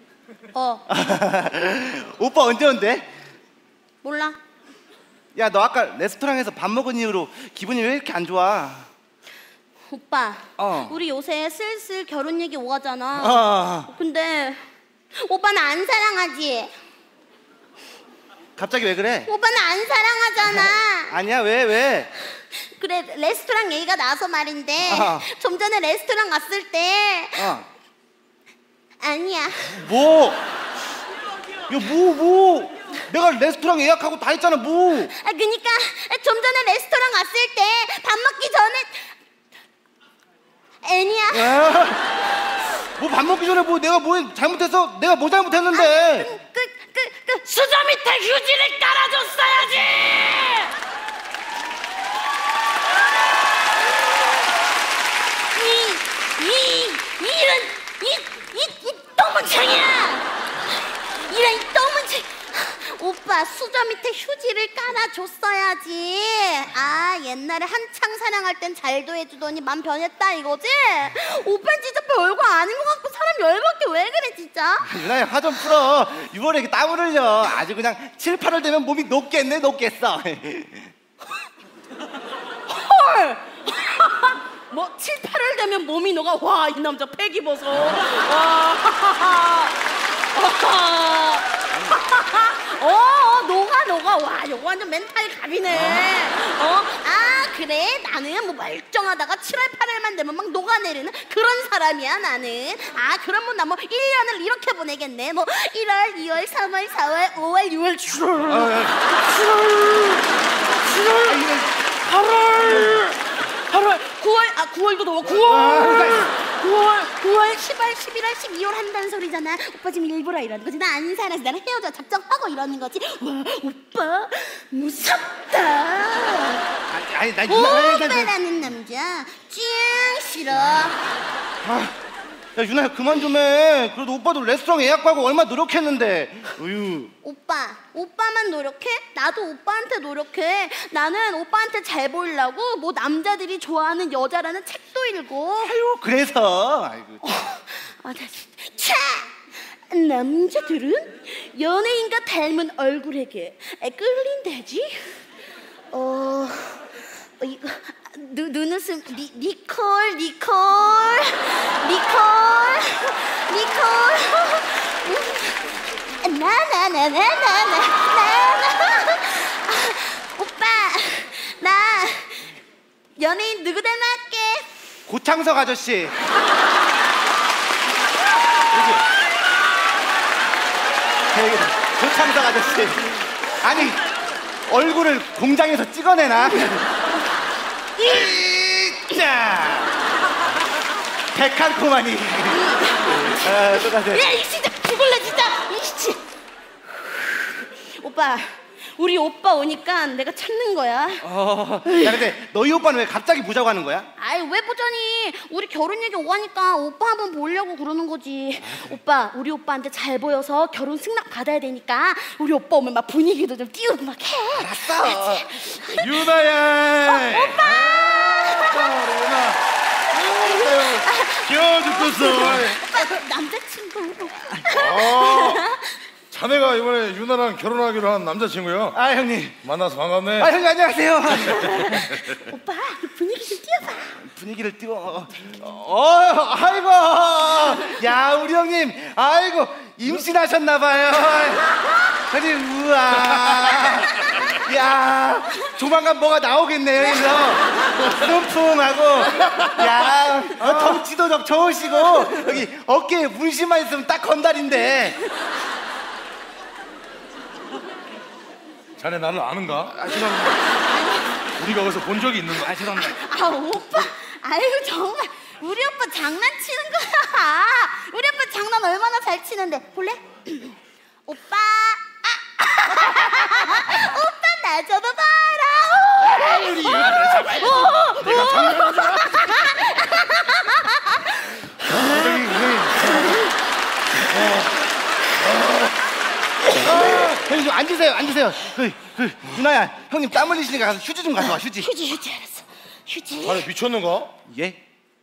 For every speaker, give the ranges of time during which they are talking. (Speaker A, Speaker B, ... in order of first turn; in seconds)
Speaker A: 0.5-0.9, 4.0-4.4, 9.9-14.6, 15.2-16.7, 19.3-21.2, 22.5-27.6, 29.0-29.9, 35.1-39.1, 40.8-41.6, 45.7-50.7, 55.5-60.3, 61.1-75.1, 82.7-89.8, 90.3-110.1, 110.8-111.4, 112.0-113.2, 113.7-126.7, 127.5-131.0, 137.2-145.7, 147.2-155.2, 155.9-172.6, 173.2-174.7, 192.5-196.2, 197.0-201.3, 201.9-202.3, 204.2-216.4, 217.0-218.9, 220.4-226.0, 231.5-234.1, 260.9-261.4, 263.0-282.3, 291.6-293.7
Speaker B: 0.9-3.1, 5.3-8.9, 10.6-11.0, 13.2-13.9, 18.6-19.3, 20.4-22.1, 24.8-25.3, 27.4-27.7, 29.7-30.4, 31.7-35.1, 41.3-42.0, 43.0-46.3, 74.8-80.9, 108.5-109.0, 111.2-111.8, 112.6-113.0, 115.3-116.3, 126.9-128.3, 131.6-131.9, 132.6-137.1, 145.6-147.2, 175.1-176.2, 181.3-184.0, 184.7-186.9, 188.0-189.9, 191.3-194.3, 201.2-204.1, 214.5-219.5, 220.1-221.1, 228.9-229.6, 230.4-232.3, 234.2-241.7, 242.3-255.2, 262.6-263.2, 276.9-277.7, 281.9-283.3, 284.3-284.6, 286.8-291.9, 294.5-294.8
Speaker C: 217.6-218.2, 218.7-219.6, 221.4-222.8, 224.7-225.6, 226.3-229.0, 229.6-230.5, 259.0-260.6, 261.6-262.9, 278.4-278.9, 293.4-294.4